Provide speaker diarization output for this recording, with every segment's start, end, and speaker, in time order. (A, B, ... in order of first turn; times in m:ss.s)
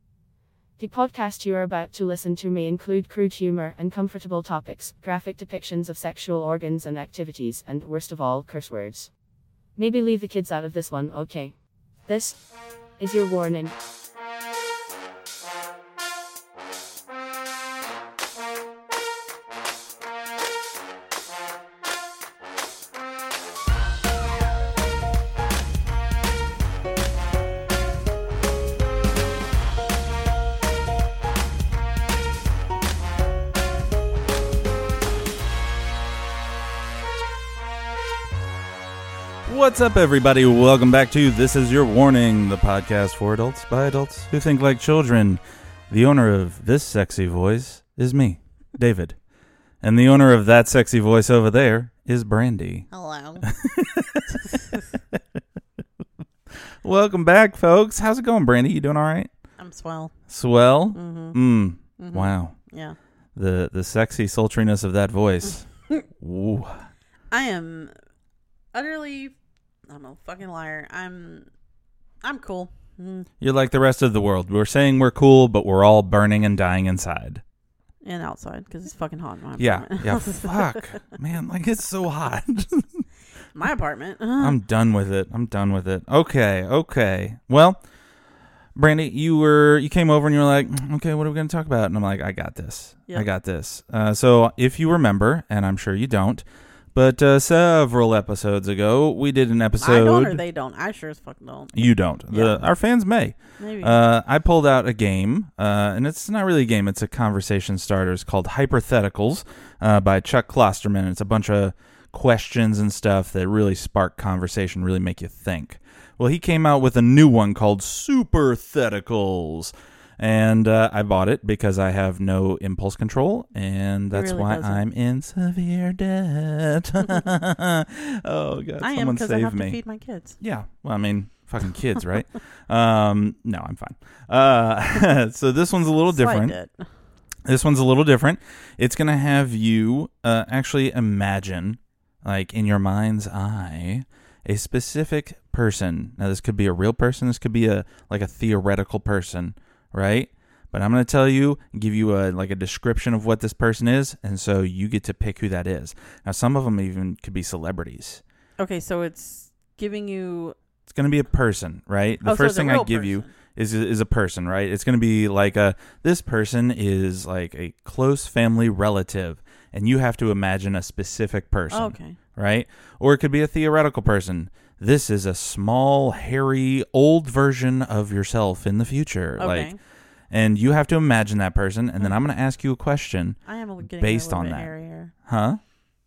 0:00.8-0:09.1 A
0:09.8-0:11.5 A
0:12.0-0:12.4 A
0:13.0-0:13.7 A
0:39.4-0:49.2 B
0:49.8-0:52.9 B
0:52.9-0:53.5 C
0:53.4-0:55.2 B
0:56.8-0:59.3 B
0:59.6-1:00.1 C
1:00.3-1:02.6 B
1:00.9-1:01.4 C
1:01.9-1:03.0 C
1:03.3-1:06.9 B
1:07.3-1:07.9 C
1:08.7-1:09.4 C
1:09.9-1:11.4 C
1:12.2-1:13.3 C
1:13.4-1:17.4 B
1:18.0-1:20.9 C
1:19.6-1:23.0 B
1:23.5-1:24.6 C
1:24.4-1:27.8 B
1:28.7-1:40.4 B
1:39.8-1:42.6 C
1:41.7-2:09.8 B
1:43.6-1:44.0 C
2:04.1-2:04.8 C
2:08.8-2:10.4 C
2:10.4-2:16.6 B
2:16.0-2:16.9 C
2:17.4-2:38.2 B
2:38.6-2:40.5 C
2:40.8-2:59.7 B
2:42.2-2:43.3 C
2:51.7-2:52.2 C
2:59.4-2:59.8 C
3:00.3-3:05.6 B
3:03.4-3:05.1 C